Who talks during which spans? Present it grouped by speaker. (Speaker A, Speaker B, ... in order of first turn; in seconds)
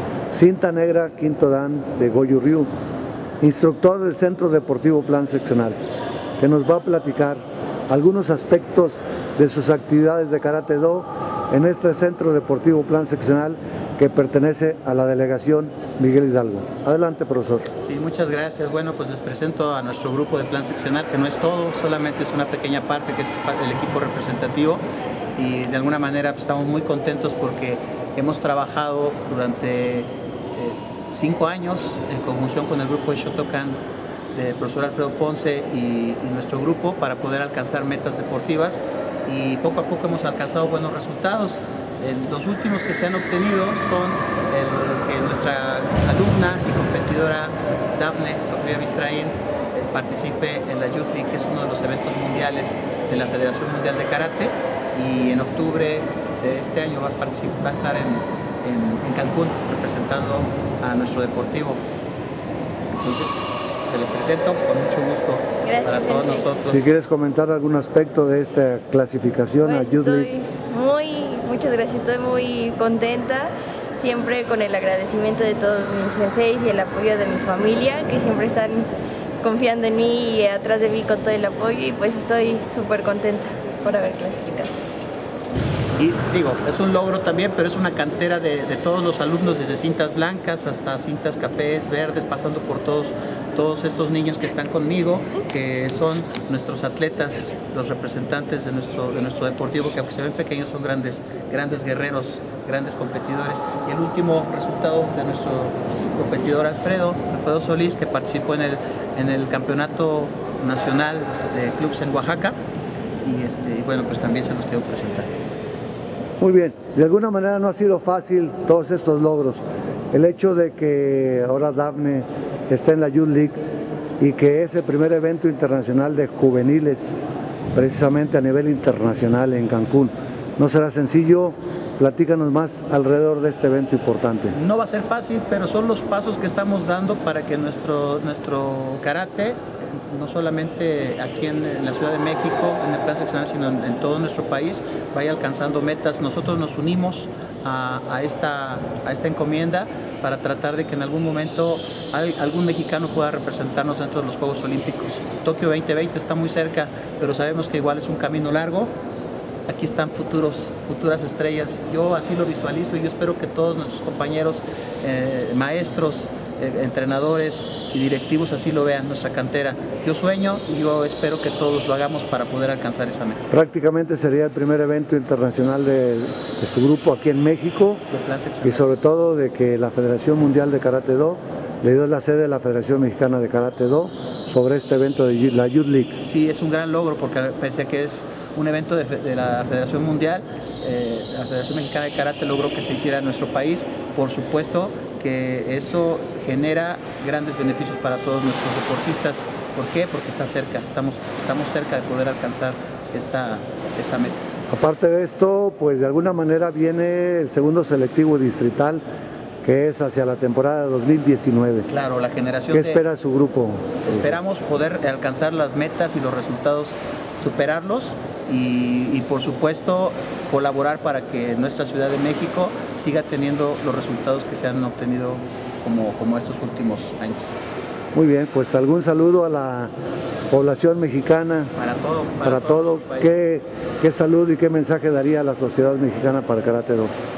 Speaker A: 0.3-2.7, 3.4-5.8, 6.4-17.7, 66.6-70.3, 116.4-123.6, 124.2-127.2, 127.7-134.5, 173.5-178.0, 178.6-186.2, 204.7-209.0, 209.6-211.9, 212.7-214.3, 228.1-229.9, 230.5-231.7, 232.4-237.1
Speaker B: 17.8-24.8, 25.4-33.8, 34.3-61.8, 62.9-66.9, 85.9-112.5, 113.2-115.3, 134.5-158.9, 159.7-173.5, 178.1-179.0, 186.2-204.4, 211.9-213.0, 214.0-227.5, 231.8-233.3
Speaker C: 65.6-66.5, 69.6-78.9, 79.4-84.7